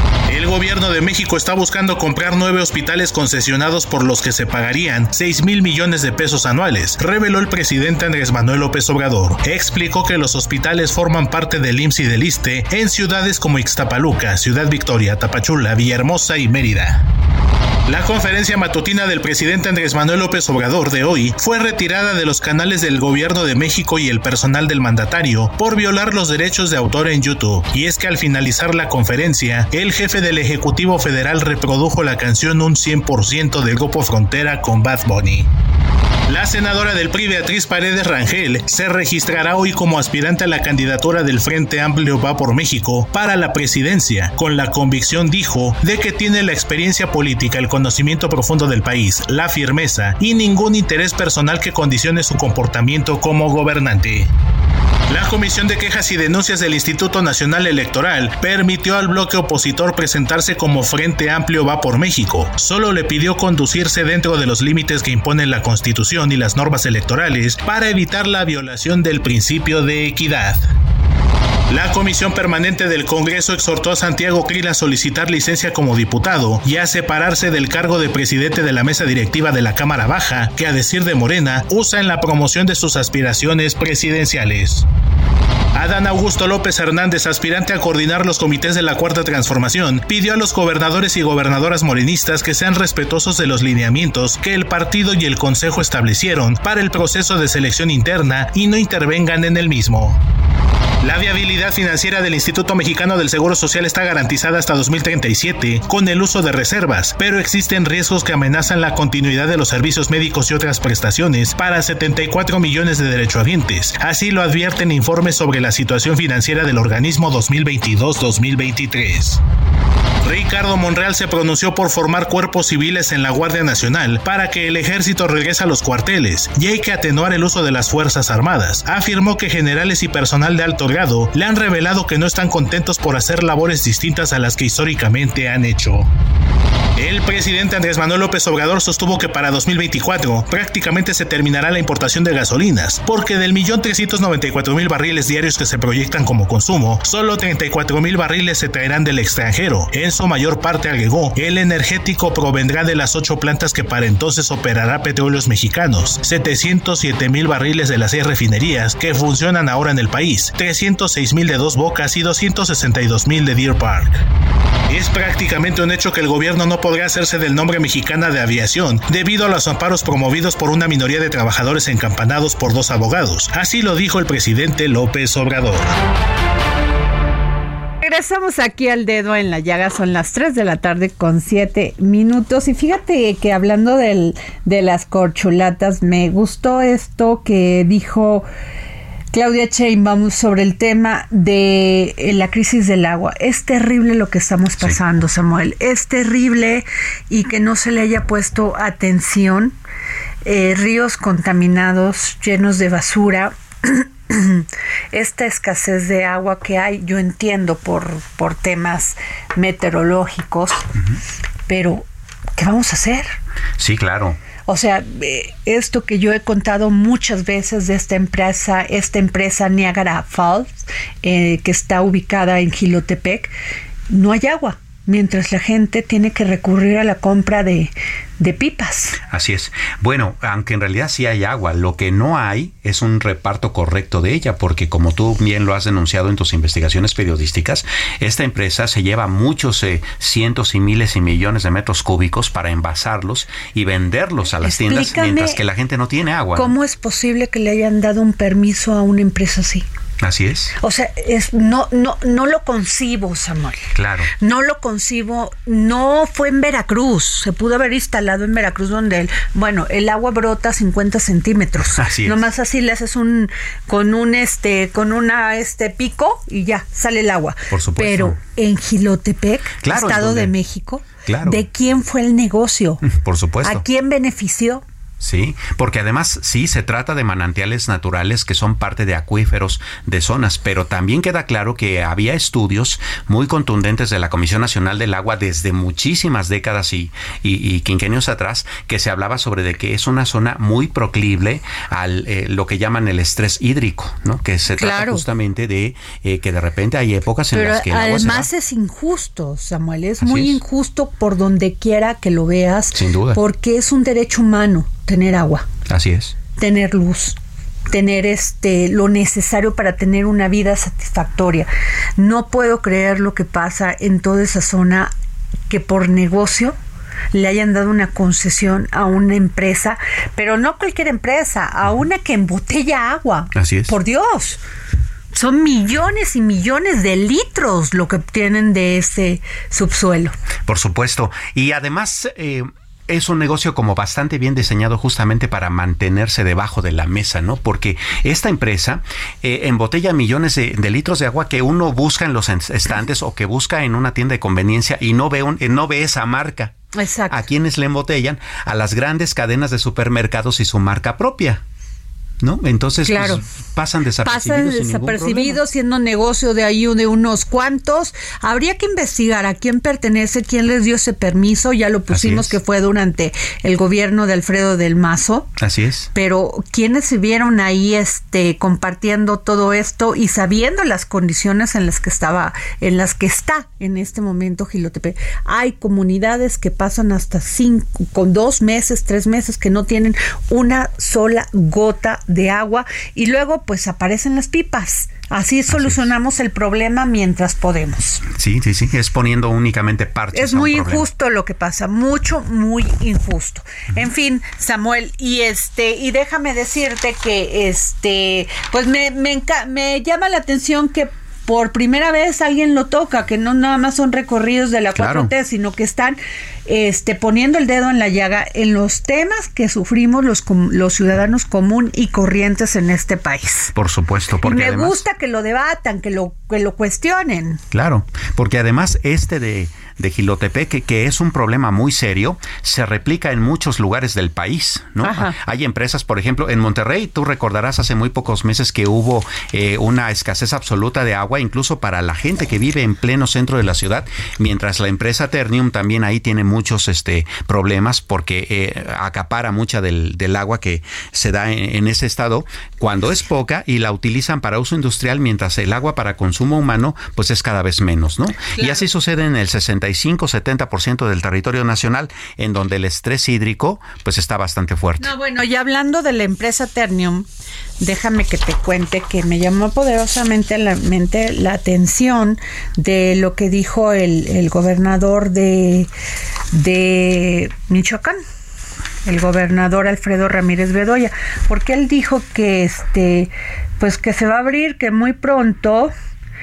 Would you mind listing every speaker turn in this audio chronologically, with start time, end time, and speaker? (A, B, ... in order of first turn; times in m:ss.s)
0:00.3-0:17.0 A
0:17.9-0:35.5 A
0:36.3-0:54.3 A
0:55.1-1:10.6 A
1:11.7-1:24.9 A
1:25.7-1:40.2 A
1:41.0-1:59.4 A
2:00.2-2:16.1 A
2:17.0-2:44.2 A
2:44.9-2:55.9 A
2:58.0-3:08.5 B
3:09.3-3:19.7 B
3:20.4-3:30.8 B
3:31.7-3:33.3 B
3:33.8-3:34.4 C
3:34.6-3:43.5 B
3:44.1-3:49.2 B
3:49.2-4:06.7 C
4:04.6-4:05.6 B
4:06.5-4:09.9 B
4:10.2-4:10.7 C
4:10.8-4:13.9 B
4:14.0-4:14.3 C
4:14.4-4:33.0 B
4:21.9-4:22.4 C
4:27.7-4:28.4 C
4:29.8-4:30.5 C
4:31.2-4:31.6 C
4:33.0-4:33.8 C
4:33.6-4:34.8 B
4:35.2-4:58.5 C
4:54.8-4:55.2 B
4:57.5-5:05.6 B
5:00.2-5:00.6 C
5:02.9-5:03.4 C
5:05.9-5:06.4 C
5:06.6-5:07.4 B
5:07.9-5:15.1 B
5:15.7-5:16.8 B
5:17.3-5:24.6 B
5:23.5-5:23.9 C
5:25.3-5:30.3 B
5:30.7-5:46.8 C
5:46.9-5:47.4 B
5:47.3-5:51.6 C
5:52.4-5:55.6 C
5:53.0-5:53.4 B
5:54.2-6:05.5 B
6:02.1-6:02.5 C
6:05.6-6:06.1 C
6:06.1-6:28.2 B
6:25.7-6:26.0 C
6:28.3-6:31.1 C
6:30.3-6:53.7 B
6:44.9-6:45.3 C
6:53.7-6:55.0 C
6:54.4-6:57.6 B
6:57.7-7:35.1 C
7:05.0-7:05.3 B
7:28.6-7:28.8 B
7:35.0-7:37.3 B
7:37.8-7:45.9 B
7:46.5-7:48.2 B
7:49.0-7:55.9 B